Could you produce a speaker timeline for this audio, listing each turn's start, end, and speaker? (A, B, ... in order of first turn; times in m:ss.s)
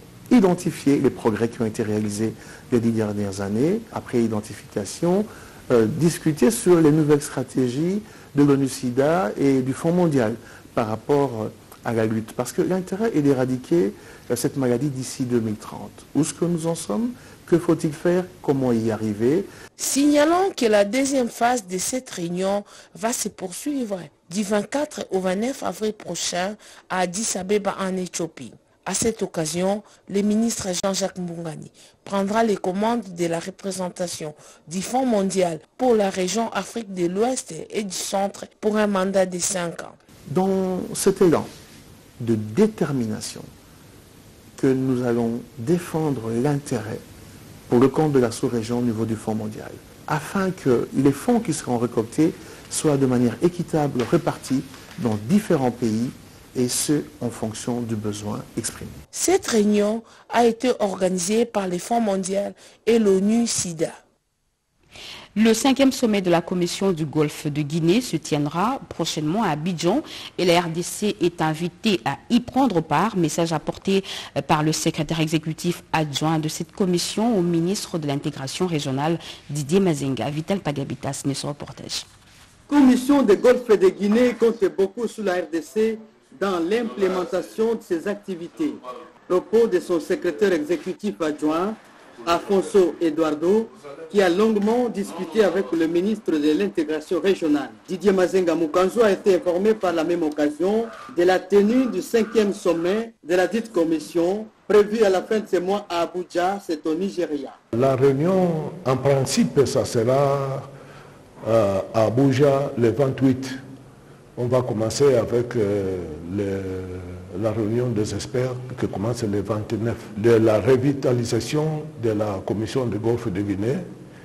0:00.3-0:19.5 A
0:19.8-0:40.0 B
0:40.3-0:41.5 A
0:42.2-0:43.5 A
0:44.6-0:47.0 A
0:47.7-0:59.0 A
0:59.1-1:04.0 B
1:05.4-1:22.1 C
1:22.7-1:47.6 D
1:47.7-1:50.7 E
1:51.4-1:53.6 E
1:54.4-2:03.9 E